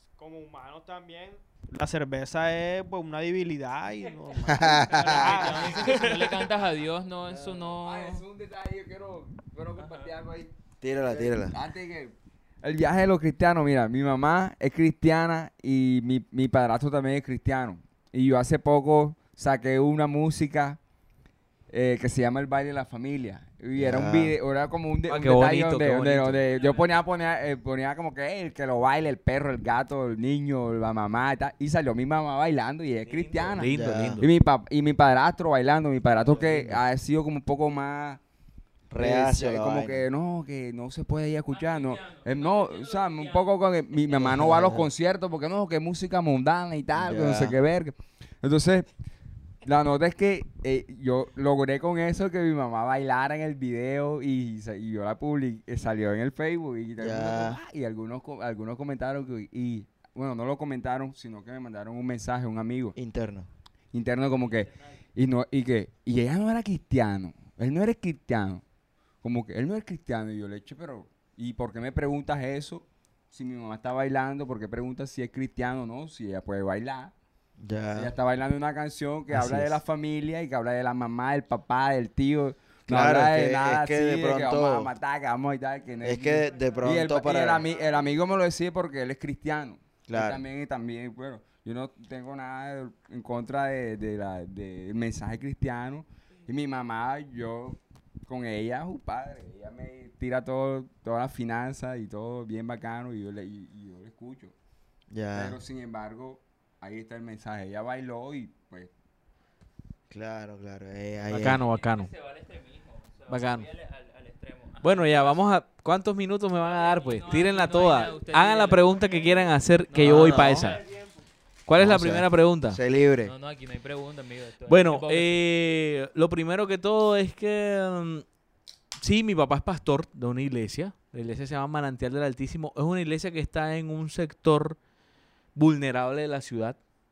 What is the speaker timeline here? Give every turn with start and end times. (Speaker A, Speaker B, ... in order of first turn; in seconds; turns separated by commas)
Speaker A: 0.2-6.5, Speaker B: 4.4-5.6, Speaker C: 4.6-8.2, Speaker D: 7.2-20.8, Speaker B: 10.8-11.6, Speaker D: 21.7-38.2, Speaker B: 23.8-24.4, Speaker E: 25.1-26.4, Speaker C: 26.4-26.9, Speaker E: 33.1-34.3, Speaker B: 33.6-34.2, Speaker B: 36.3-36.8, Speaker B: 38.9-40.1, Speaker D: 39.0-48.9, Speaker C: 41.5-43.5, Speaker B: 44.1-44.9, Speaker B: 46.9-47.6, Speaker D: 49.6-63.0, Speaker B: 57.0-57.6, Speaker B: 63.0-63.5, Speaker D: 63.9-68.6, Speaker C: 64.4-65.0, Speaker D: 69.2-77.1, Speaker B: 77.6-78.1, Speaker D: 77.9-104.5, Speaker B: 79.3-79.8, Speaker B: 82.9-84.9, Speaker B: 86.0-87.7, Speaker C: 86.5-86.8, Speaker C: 87.7-88.0, Speaker B: 90.1-90.4, Speaker B: 105.1-105.6, Speaker D: 105.3-108.9, Speaker B: 110.1-111.6, Speaker E: 111.3-112.1, Speaker C: 111.6-115.5, Speaker E: 113.3-113.7, Speaker E: 114.8-120.8, Speaker C: 116.6-120.8, Speaker B: 120.0-120.7, Speaker A: 120.8-121.1, Speaker E: 121.7-122.8, Speaker B: 121.8-123.3, Speaker C: 123.2-125.5, Speaker E: 124.7-128.2, Speaker E: 129.0-134.8, Speaker E: 135.5-136.8